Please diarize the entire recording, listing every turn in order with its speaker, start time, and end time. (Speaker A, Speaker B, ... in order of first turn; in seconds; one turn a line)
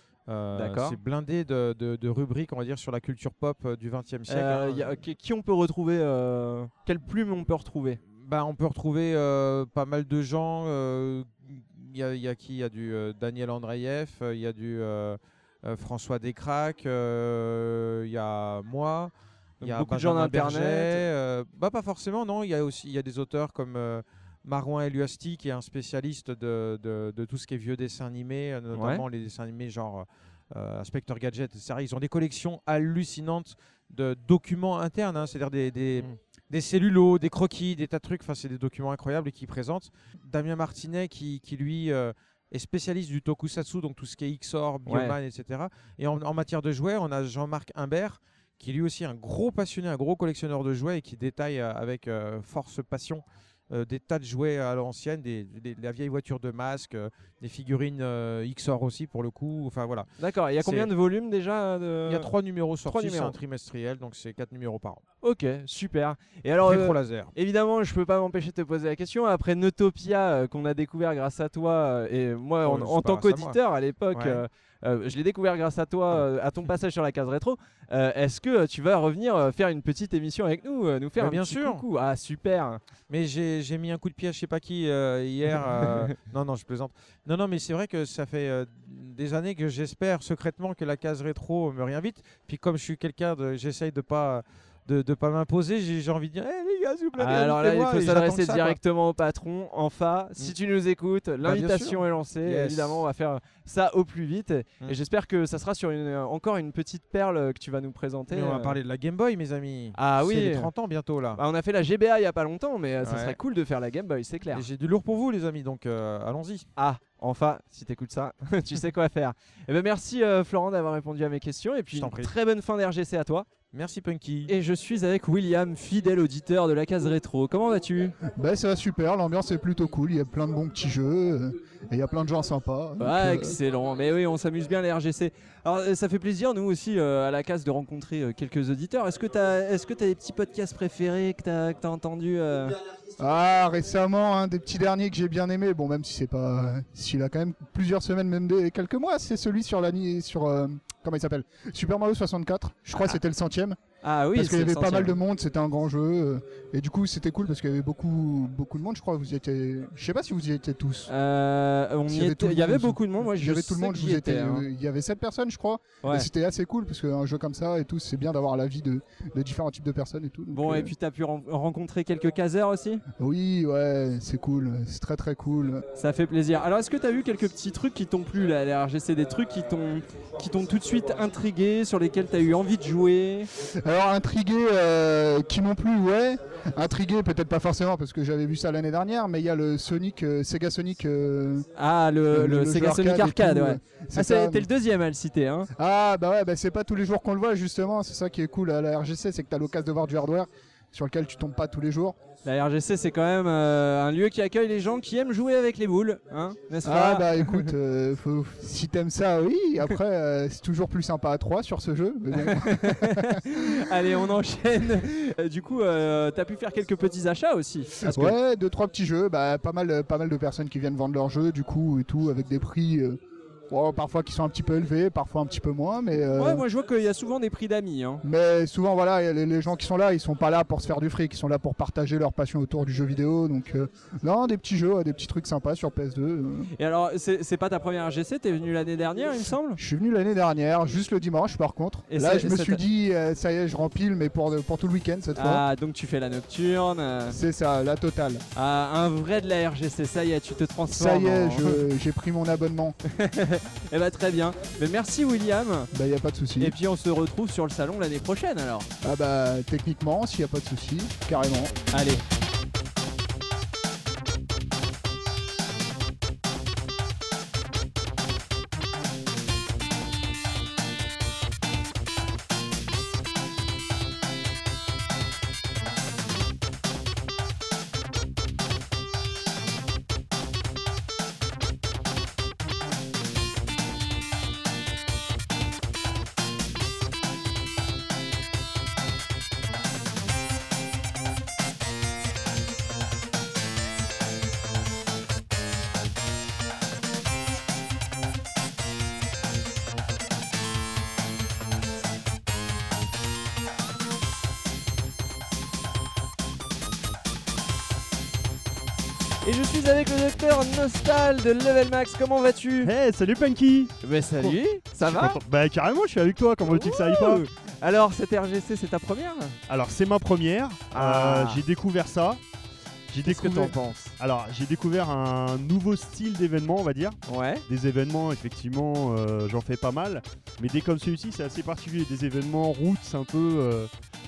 Speaker A: 0.3-4.9
Speaker B: 0.5-1.0
Speaker B: 4.3-8.0
Speaker A: 8.1-60.1
Speaker B: 19.6-21.0
Speaker B: 28.7-29.0
Speaker B: 44.9-45.1
Speaker B: 60.2-62.3
Speaker A: 60.6-60.9
Speaker A: 62.1-65.0
Speaker B: 62.8-63.3
Speaker B: 65.2-82.8
Speaker A: 66.6-67.3
Speaker A: 72.6-73.6
Speaker A: 74.1-74.4
Speaker A: 81.2-81.8
Speaker A: 83.1-98.8
Speaker B: 85.6-86.1
Speaker B: 97.2-108.8
Speaker A: 101.4-103.0
Speaker A: 108.3-111.4
Speaker B: 109.9-110.7
Speaker B: 111.3-114.7
Speaker A: 113.0-113.4
Speaker A: 114.5-116.7
Speaker B: 116.8-123.5
Speaker A: 121.9-122.3
Speaker A: 123.7-124.5
Speaker B: 124.5-128.1
Speaker C: 128.3-133.6
Speaker B: 133.0-142.8
Speaker C: 143.2-153.8
Speaker B: 154.0-155.2
Speaker C: 154.3-161.1
Speaker B: 161.1-164.6
Speaker C: 162.1-170.9
Speaker B: 166.0-166.3
Speaker B: 170.5-173.0
Speaker C: 173.2-175.8
Speaker B: 175.9-183.5
Speaker C: 183.8-191.7
Speaker B: 191.7-195.7
Speaker C: 192.3-194.7
Speaker C: 195.8-202.2
Speaker B: 202.4-207.7
Speaker C: 206.8-213.4
Speaker B: 212.3-218.3
Speaker C: 218.0-226.6
Speaker B: 226.3-228.2
Speaker C: 228.2-236.7
Speaker B: 236.7-239.8
Speaker C: 239.8-245.6
Speaker B: 242.1-242.8
Speaker B: 245.3-247.3
Speaker C: 247.3-248.4
Speaker B: 248.5-251.8
Speaker C: 250.9-252.9
Speaker B: 253.0-255.9
Speaker C: 255.9-256.7
Speaker B: 256.6-258.9
Speaker C: 259.0-261.8
Speaker B: 261.9-262.2
Speaker B: 309.4-312.9
Speaker D: 312.8-317.4
Speaker B: 314.0-315.4
Speaker B: 316.6-319.6
Speaker D: 319.7-322.4
Speaker B: 320.9-321.6
Speaker D: 323.1-333.9
Speaker B: 323.2-324.1
Speaker B: 327.3-327.6